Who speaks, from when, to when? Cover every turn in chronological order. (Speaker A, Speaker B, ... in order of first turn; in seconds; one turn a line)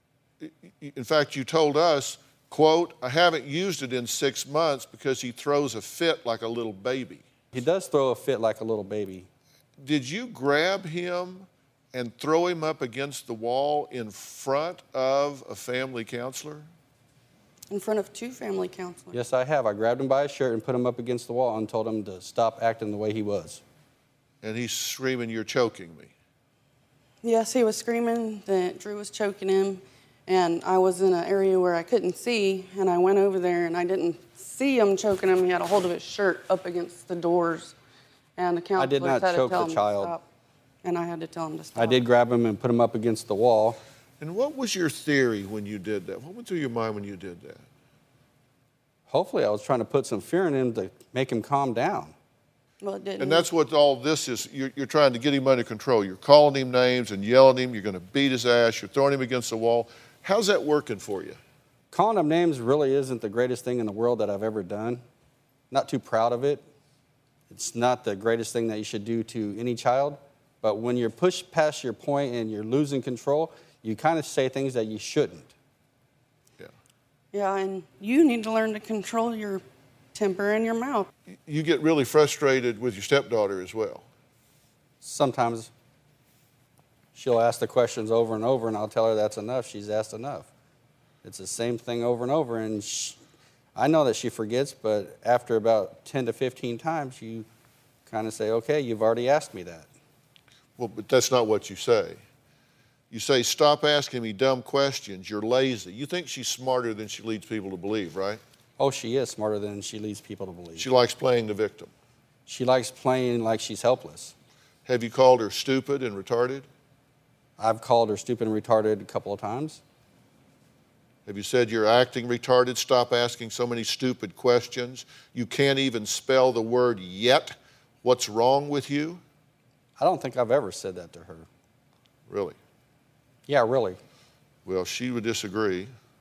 Speaker A: 0.4-7.3
Speaker B: 7.5-9.3
Speaker A: 9.8-16.7
Speaker C: 17.7-19.2
Speaker B: 19.1-23.6
Speaker A: 24.4-26.1
Speaker C: 27.2-37.8
Speaker C: 38.4-40.2
Speaker B: 38.8-40.1
Speaker C: 40.8-42.0
Speaker B: 41.8-43.8
Speaker A: 44.2-47.6
Speaker B: 49.1-52.1
Speaker C: 52.8-53.5
Speaker A: 53.2-61.4
Speaker B: 61.9-65.0
Speaker B: 65.7-66.6
Speaker B: 67.5-75.5
Speaker C: 77.3-79.6
Speaker C: 80.1-81.1
Speaker A: 81.3-84.1
Speaker B: 85.0-85.7
Speaker B: 87.2-90.5
Speaker B: 91.2-93.2
Speaker B: 93.8-97.5
Speaker B: 98.1-99.9
Speaker A: 100.8-102.2
Speaker A: 103.1-108.4
Speaker B: 108.8-110.9
Speaker A: 110.8-111.9
Speaker B: 112.5-114.3
Speaker A: 114.9-116.7
Speaker B: 117.6-119.8
Speaker A: 121.3-129.2
Speaker B: 130.0-131.5
Speaker A: 132.3-132.6
Speaker B: 133.5-134.0
Speaker A: 134.7-135.9